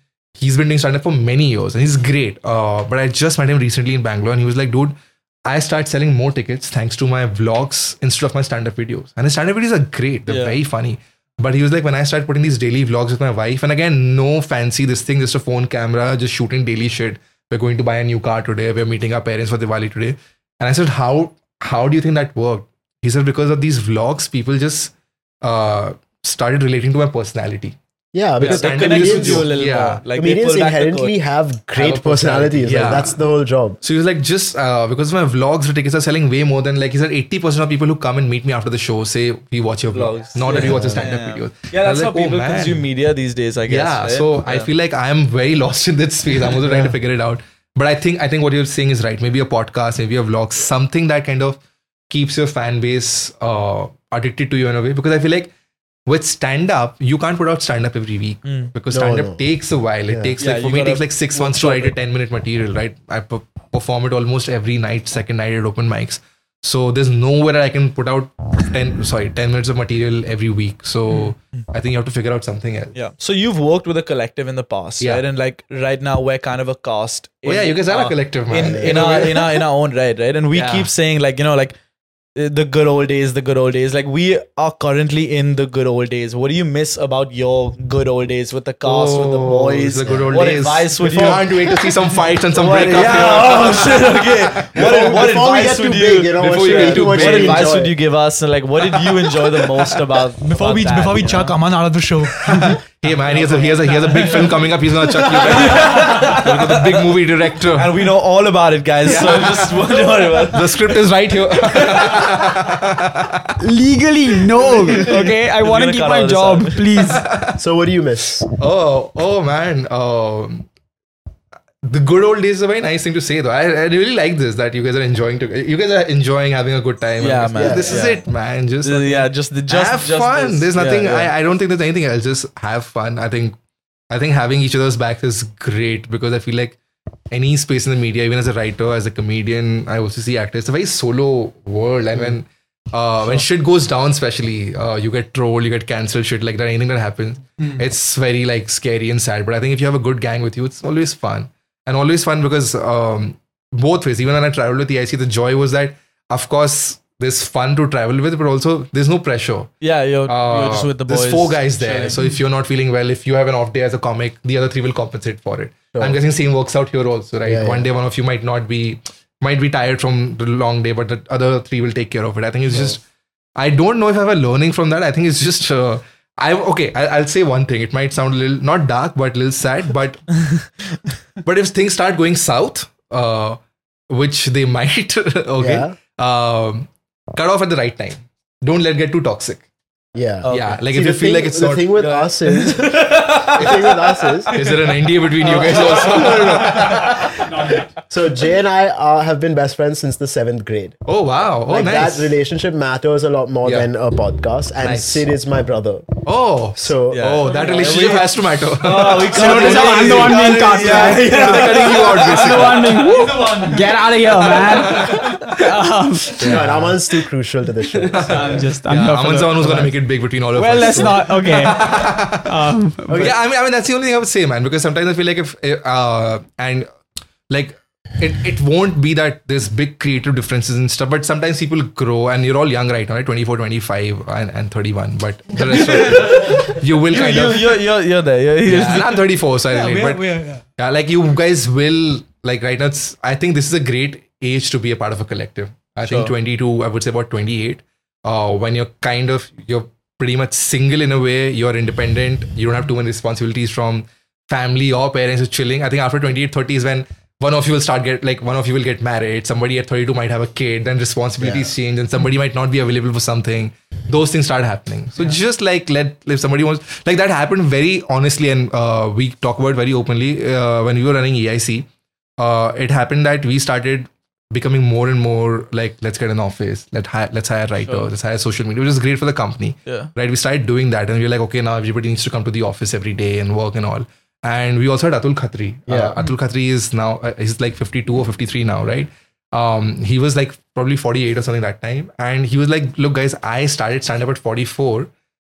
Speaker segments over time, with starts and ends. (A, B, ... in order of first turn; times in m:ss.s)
0:00.4-0:27.8 A
0:10.3-0:10.6 B
0:28.1-0:29.5 C
0:28.4-0:30.0 A
0:28.4-0:31.2 B
0:30.1-0:33.8 C
0:31.8-0:33.2 A
0:31.9-0:32.6 B
0:33.8-0:42.9 A
0:39.9-0:44.7 B
0:40.5-0:41.0 C
0:43.6-0:55.5 A
0:56.1-1:13.0 A
0:58.4-0:58.7 B
0:58.9-0:59.4 C
1:00.1-1:00.4 C
1:00.4-1:01.9 B
1:13.0-1:21.8 B
1:17.5-1:19.7 A
1:18.6-1:19.0 C
1:20.5-1:20.9 A
1:22.4-1:31.8 B
1:28.8-1:35.2 A
1:30.1-1:30.4 C
1:31.0-1:31.4 C
1:32.5-1:41.6 B
1:34.8-1:37.9 C
1:36.4-1:37.7 A
1:40.4-1:42.8 D
1:42.4-1:48.1 A
1:45.4-1:46.8 B
1:47.7-1:50.9 B
1:49.0-1:49.9 A
1:50.4-1:53.6 A
1:53.6-1:57.2 E
1:54.9-1:56.9 B
1:57.0-1:57.6 A
1:57.6-1:58.5 C
1:58.6-2:00.7 A
2:01.8-2:13.6 A
2:07.2-2:08.2 B
2:07.6-2:08.0 C
2:08.8-2:11.3 B
2:14.1-2:16.8 A
2:17.3-2:39.7 A
2:39.8-2:42.2 B
2:40.3-2:53.0 A
2:47.4-2:47.9 C
2:53.6-3:00.3 A
3:01.4-3:09.6 A
3:05.6-3:06.0 C
3:10.2-3:14.5 C
3:10.4-3:10.8 B
3:10.4-3:12.0 A
3:12.0-3:13.8 B
3:13.6-3:13.8 A
3:14.5-3:17.6 A
3:15.4-3:17.0 B
3:15.7-3:16.8 C
3:18.1-3:21.0 C
3:21.1-3:22.4 A
3:21.7-3:26.2 C
3:24.8-3:25.2 A
3:26.2-3:33.0 A
3:26.8-3:27.3 C
3:27.1-3:32.8 B
3:29.2-3:36.6 E
3:33.0-3:33.9 D
3:34.8-3:35.2 A
3:36.4-3:37.0 A
3:36.5-3:38.6 C
3:38.1-3:39.9 E
3:38.1-3:46.9 A
3:40.5-3:43.3 E
3:47.5-3:57.8 A
3:56.0-3:56.5 D
3:56.1-3:59.2 B
3:58.6-4:55.1 A
3:59.7-4:00.6 D
4:06.1-4:06.3 B
4:21.4-4:21.7 C
4:37.8-4:38.1 B
4:45.9-4:46.2 C